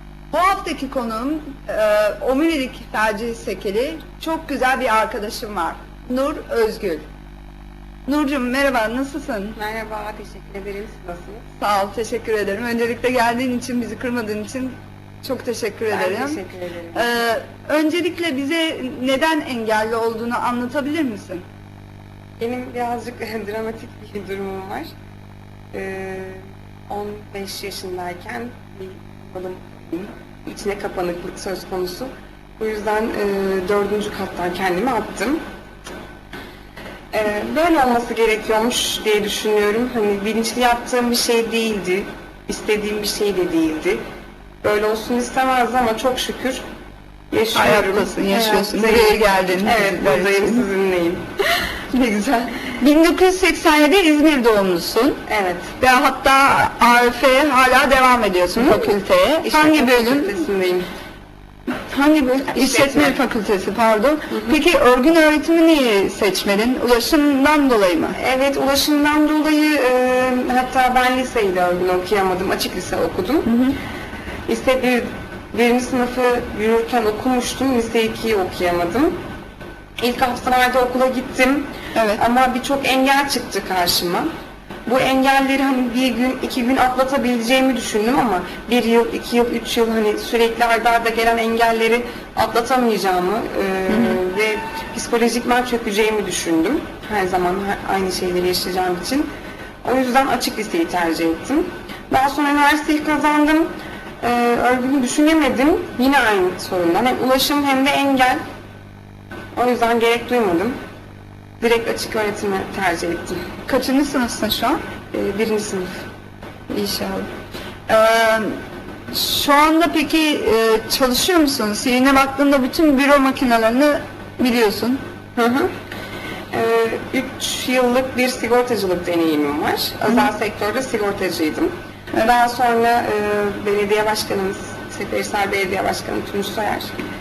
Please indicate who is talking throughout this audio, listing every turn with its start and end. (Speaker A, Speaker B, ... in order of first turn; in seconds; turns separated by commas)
Speaker A: 0.3-7.0, Speaker A: 8.1-9.6, Speaker B: 9.6-11.5, Speaker A: 11.6-16.4, Speaker B: 15.9-17.1, Speaker A: 16.9-21.4, Speaker B: 22.4-24.9, Speaker B: 25.7-35.4, Speaker B: 37.1-44.0, Speaker B: 44.6-46.6, Speaker B: 47.3-51.3, Speaker A: 47.5-50.6, Speaker A: 51.9-55.2, Speaker B: 55.3-55.7, Speaker A: 55.8-60.4, Speaker B: 58.5-60.9, Speaker A: 61.7-68.2, Speaker B: 62.5-63.2, Speaker B: 64.3-64.6, Speaker B: 68.2-73.5, Speaker A: 73.5-73.8, Speaker B: 74.5-79.2, Speaker B: 80.0-84.3, Speaker A: 82.0-82.2, Speaker B: 84.9-99.3, Speaker A: 93.9-94.2, Speaker B: 99.8-108.4, Speaker B: 109.5-110.8, Speaker B: 111.6-113.5, Speaker A: 113.7-114.8, Speaker B: 115.1-116.0, Speaker A: 116.7-117.3, Speaker A: 117.9-125.0, Speaker B: 125.4-125.7, Speaker B: 126.5-136.9